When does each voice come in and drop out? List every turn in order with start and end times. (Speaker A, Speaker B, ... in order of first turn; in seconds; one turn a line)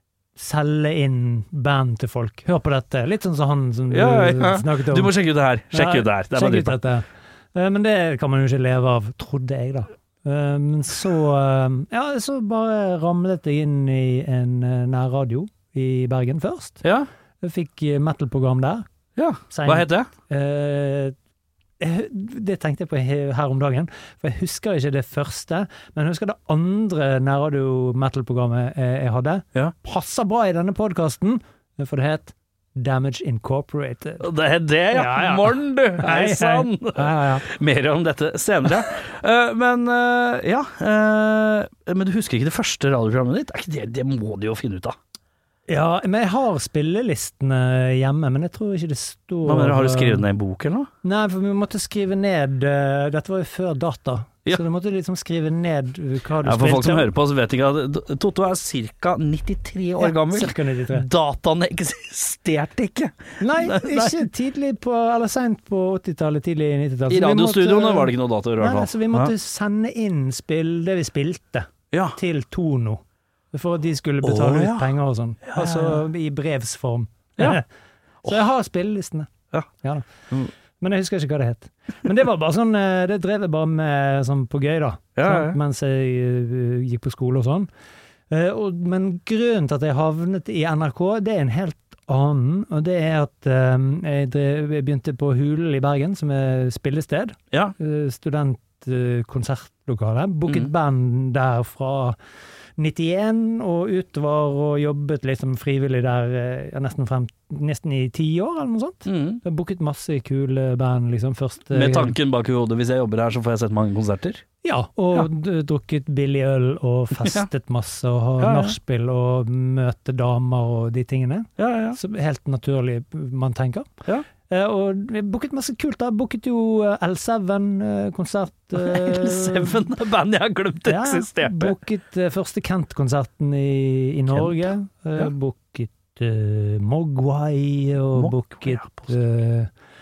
Speaker A: 0.3-5.1
Speaker B: 3.9-6.8
Speaker A: 5.7-16.8
Speaker B: 16.8-17.1
Speaker A: 17.4-18.8
Speaker B: 19.1-20.1
Speaker A: 19.5-21.1
Speaker A: 21.8-34.3
Speaker B: 34.2-45.0
Speaker A: 34.9-37.5
Speaker A: 45.7-50.2
Speaker B: 49.4-50.9
Speaker A: 51.0-57.1
Speaker B: 56.4-64.3
Speaker A: 60.0-61.0
Speaker A: 63.4-73.0
Speaker B: 67.1-69.3
Speaker B: 71.9-72.2
Speaker A: 73.5-77.7
Speaker B: 74.2-76.0
Speaker A: 78.2-79.3
Speaker A: 79.8-80.1
Speaker A: 80.8-87.7
Speaker B: 85.2-85.6
Speaker A: 88.3-102.2
Speaker A: 102.8-112.2
Speaker B: 109.0-109.4
Speaker B: 111.7-114.4
Speaker A: 114.6-123.9
Speaker B: 117.1-117.5
Speaker B: 118.4-118.8
Speaker B: 121.6-122.0
Speaker A: 124.4-129.8
Speaker B: 128.8-131.8
Speaker A: 130.8-139.7
Speaker B: 134.3-134.6
Speaker B: 138.1-139.1